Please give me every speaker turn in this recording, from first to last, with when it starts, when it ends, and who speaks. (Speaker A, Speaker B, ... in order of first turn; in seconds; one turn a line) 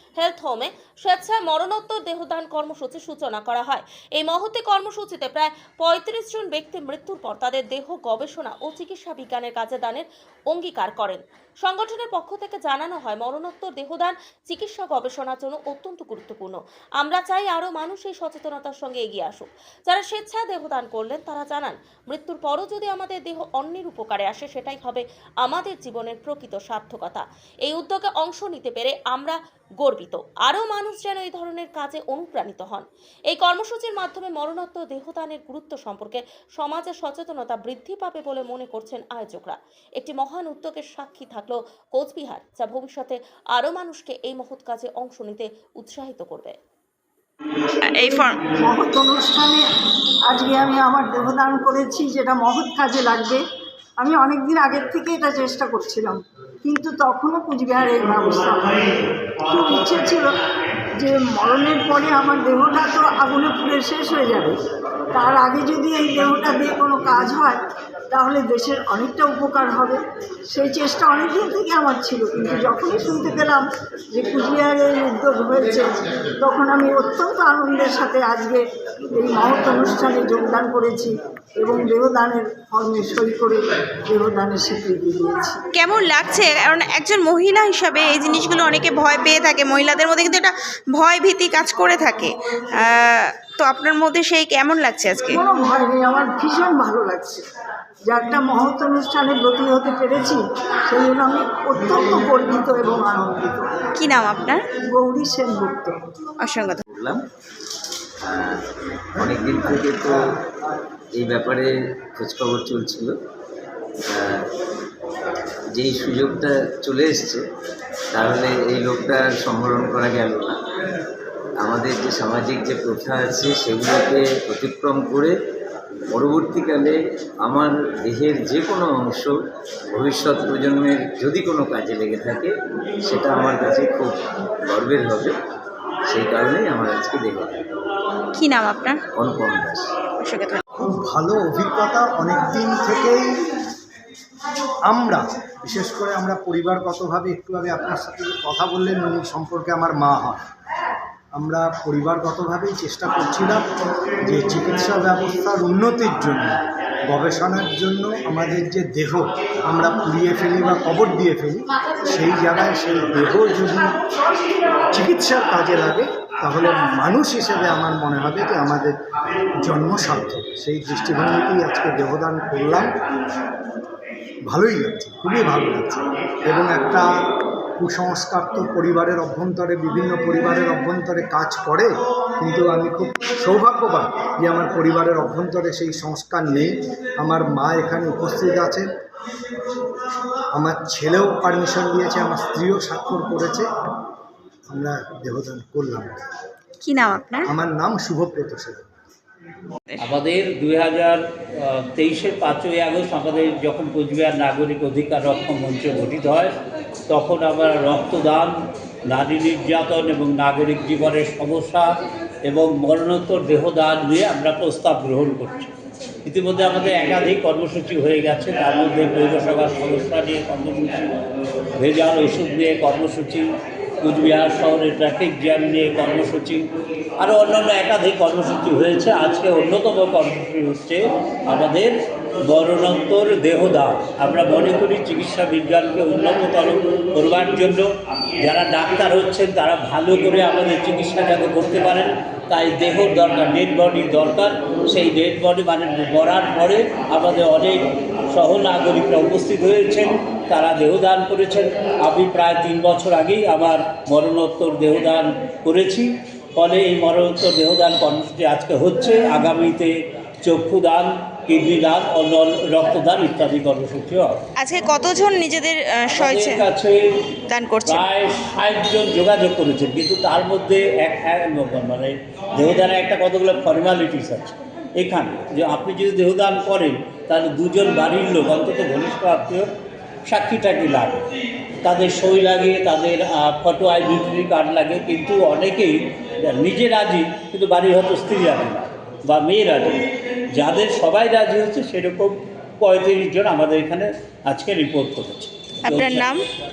Speaker A: 0.2-46.6
Speaker B: 47.9-48.4
Speaker C: 48.0-49.7
Speaker C: 50.3-53.4
Speaker C: 54.0-60.3
Speaker C: 61.0-64.6
Speaker C: 65.1-85.6
Speaker B: 85.8-95.4
Speaker C: 95.3-97.4
Speaker C: 98.1-103.7
Speaker B: 104.0-104.7
Speaker C: 104.9-106.0
Speaker B: 106.4-106.8
Speaker D: 106.9-107.2
Speaker D: 108.2-108.6
Speaker D: 109.2-110.4
Speaker D: 111.2-113.2
Speaker D: 114.1-114.4
Speaker D: 115.8-117.4
Speaker D: 118.1-120.6
Speaker D: 121.6-125.3
Speaker D: 126.1-129.4
Speaker D: 129.9-132.5
Speaker D: 133.1-135.3
Speaker D: 136.1-137.7
Speaker B: 138.4-139.0
Speaker D: 139.2-139.9
Speaker B: 140.2-140.6
Speaker E: 140.8-143.4
Speaker E: 144.9-150.4
Speaker E: 151.3-153.7
Speaker E: 154.2-164.0
Speaker E: 164.9-168.9
Speaker E: 169.6-172.9
Speaker E: 174.5-177.1
Speaker E: 177.8-188.9
Speaker E: 190.6-193.7
Speaker E: 194.7-196.2
Speaker B: 196.8-197.5
Speaker E: 197.5-198.8
Speaker F: 200.0-206.5
Speaker F: 207.1-208.5
Speaker F: 209.1-211.9
Speaker F: 212.5-215.7
Speaker F: 216.2-221.2
Speaker F: 221.8-223.5
Speaker F: 224.0-226.6
Speaker F: 227.2-231.9
Speaker F: 232.5-237.9
Speaker F: 238.4-259.9
Speaker F: 260.4-264.4
Speaker B: 264.6-266.6
Speaker F: 266.1-267.0
Speaker B: 267.5-268.0
Speaker F: 267.9-279.7
Speaker F: 280.3-281.2
Speaker F: 281.8-290.0
Speaker F: 290.5-296.3
Speaker B: 295.9-296.4